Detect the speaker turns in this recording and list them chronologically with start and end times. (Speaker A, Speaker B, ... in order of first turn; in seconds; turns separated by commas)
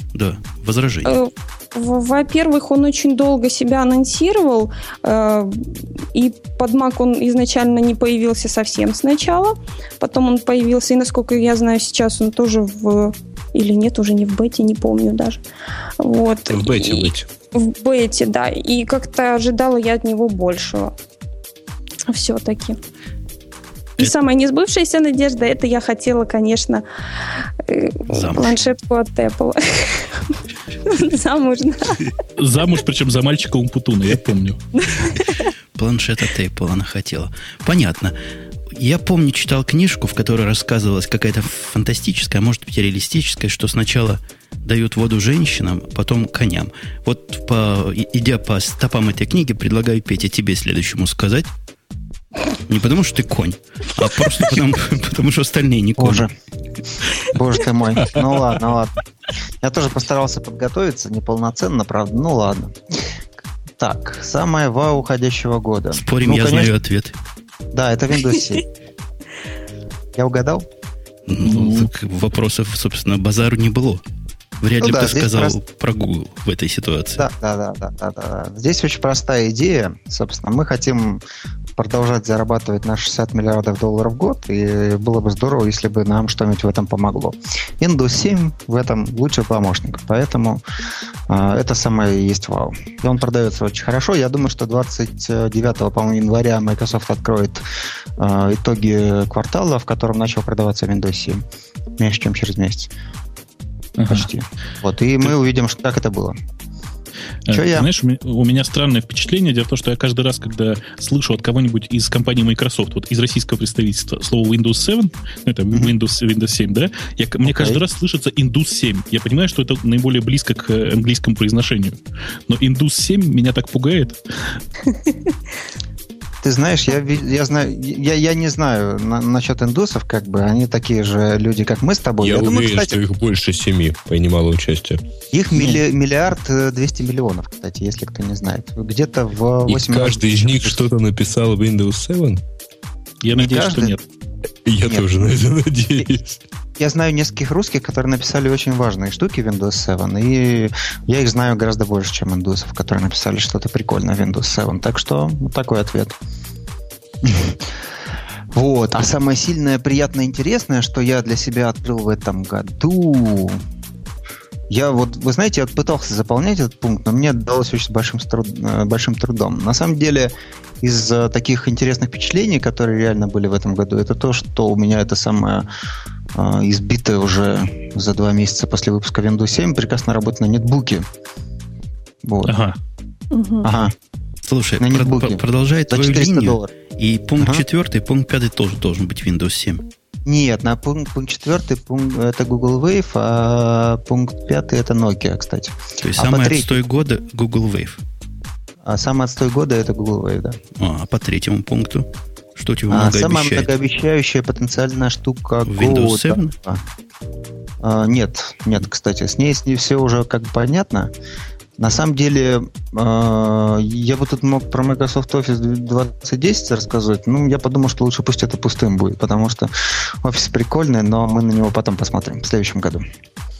Speaker A: 0.1-1.2, Speaker B: 1.0-15.4, Speaker B: 16.0-20.9, Speaker C: 16.5-17.3, Speaker B: 22.1-22.8, Speaker B: 24.0-26.8, Speaker B: 27.6-32.1, Speaker A: 28.1-28.6, Speaker D: 32.4-34.8, Speaker B: 34.8-35.5, Speaker A: 35.7-38.1, Speaker A: 38.7-51.5, Speaker A: 52.7-56.3, Speaker E: 56.0-56.3, Speaker E: 57.2-59.0, Speaker E: 59.6-62.8, Speaker E: 63.8-66.7, Speaker A: 65.9-67.1, Speaker E: 67.7-68.6, Speaker E: 70.2-70.7, Speaker A: 71.3-74.0, Speaker A: 74.6-77.2, Speaker E: 74.8-75.6, Speaker E: 77.2-81.2, Speaker E: 81.8-90.6, Speaker E: 91.3-97.6, Speaker E: 98.2-101.4, Speaker E: 102.0-102.9, Speaker D: 104.0-104.3, Speaker E: 104.1-106.3, Speaker D: 107.5-124.2, Speaker E: 107.5-107.9, Speaker E: 117.4-117.8, Speaker B: 124.9-125.3, Speaker E: 126.4-133.0, Speaker C: 132.2-135.0, Speaker E: 135.3-140.8, Speaker D: 135.5-135.8, Speaker C: 139.7-142.4, Speaker D: 143.2-144.0, Speaker E: 143.3-143.9, Speaker C: 144.6-146.4, Speaker E: 146.8-156.2, Speaker E: 157.2-157.6, Speaker E: 158.5-163.6, Speaker E: 164.7-175.7, Speaker E: 176.3-181.0, Speaker E: 182.2-182.5, Speaker D: 182.4-182.8, Speaker B: 183.3-183.7, Speaker E: 183.6-183.9, Speaker A: 184.5-189.8, Speaker E: 184.8-186.7, Speaker E: 190.2-196.8, Speaker A: 196.0-198.0, Speaker E: 198.8-200.6, Speaker A: 200.8-203.7, Speaker E: 202.9-206.8, Speaker A: 205.7-206.5, Speaker E: 207.8-211.1, Speaker E: 211.8-219.7, Speaker E: 220.2-223.0